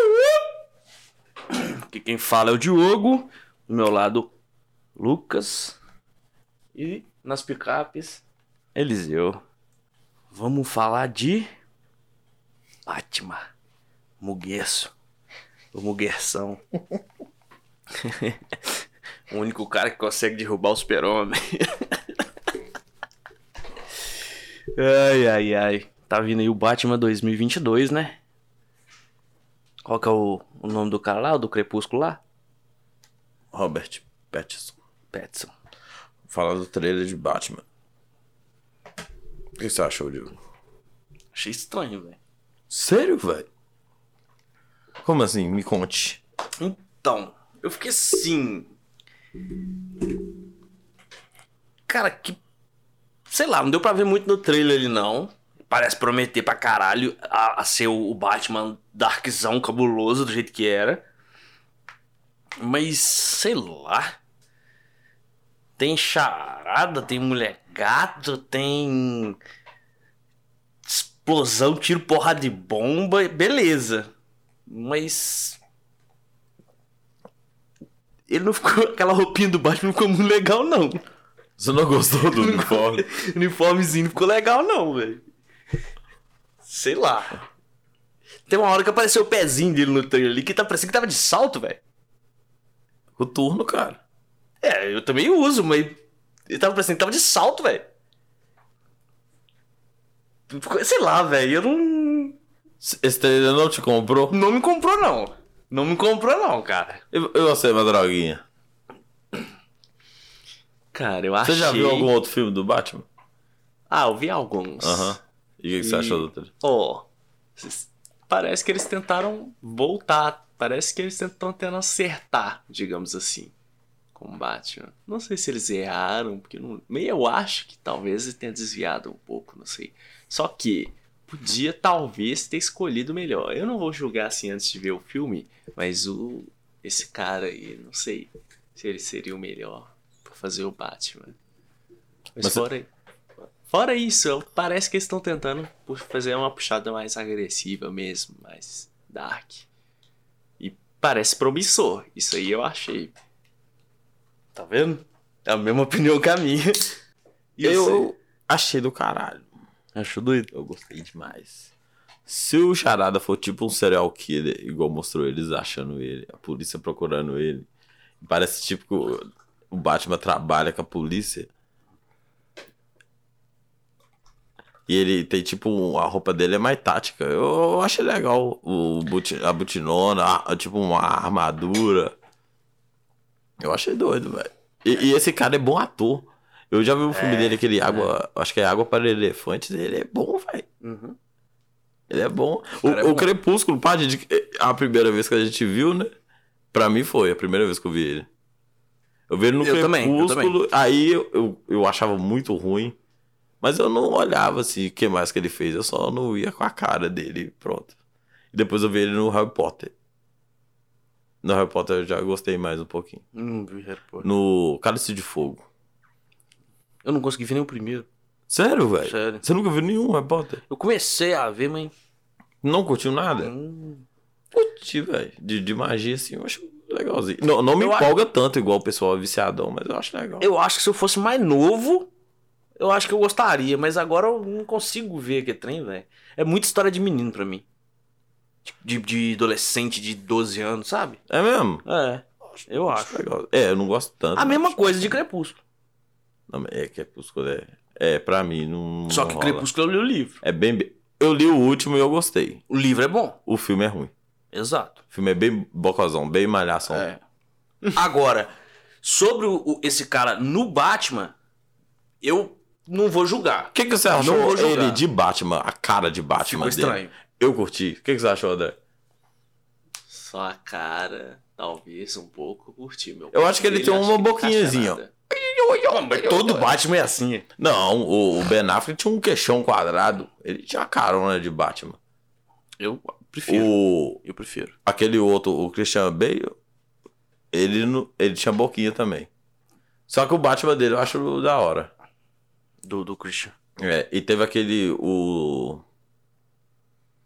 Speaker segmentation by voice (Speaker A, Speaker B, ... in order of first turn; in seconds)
Speaker A: 1.5-4.3, 5.0-5.8, 6.7-8.2, 8.7-9.4, 10.3-11.5, 12.9-13.4, 14.2-14.9, 15.7-16.6, 17.9-18.4, 19.3-22.0, 24.7-28.2, 29.8-32.2, 35.1-35.5, 41.3-42.2, 46.6-48.7, 51.9-52.4, 53.3-61.0, 62.6-64.1, 65.8-69.4, 70.8-74.1, 74.7-75.6, 78.3-81.0, 82.4-85.2, 86.6-87.4, 88.5-91.8, 94.6-97.9, 100.5-102.4, 104.3-107.0, 154.5-157.0, 157.6-158.1, 159.9-160.5, 187.1-188.1, 190.8-191.2, 192.8-193.3, 199.6-200.5, 213.3-214.3, 217.0-218.1, 219.0-219.4, 220.7-221.9, 223.4-224.0, 227.8-228.1, 230.4-232.1, 232.8-237.6, 238.6-241.2, 241.8-243.2, 244.3-245.6, 249.1-250.4, 252.7-253.4, 254.5-255.0, 256.9-257.2, 257.9-258.5, 259.0-261.3, 262.2-265.0, 266.4-267.1, 275.9-277.4, 282.8-284.7, 292.8-293.5
Speaker B: 33.5-34.8, 36.3-37.6, 39.6-40.4, 42.7-43.5, 45.0-46.2, 81.6-83.0, 93.2-94.0, 102.8-104.3, 107.1-108.4, 111.4-113.1, 114.8-116.5, 157.6-159.5, 160.5-161.7, 162.2-167.7, 168.2-171.5, 174.9-182.1, 183.6-190.7, 192.1-196.1, 196.7-198.3, 199.3-203.0, 203.6-207.9, 208.5-209.9, 211.4-213.2, 214.2-215.6, 218.5-220.6, 222.6-223.5, 224.5-230.5, 241.3-241.8, 242.9-245.1, 246.5-249.7, 250.4-252.6, 253.4-254.1, 255.1-257.1, 263.7-268.8, 273.3-276.8, 277.6-282.0, 283.5-284.2, 284.9-286.6, 287.5-289.3, 290.1-291.9, 293.8-295.8
Speaker C: 110.9-112.1, 113.9-115.2, 115.8-123.5, 124.1-141.4, 142.3-142.9, 143.6-149.7, 150.6-153.2, 270.1-275.1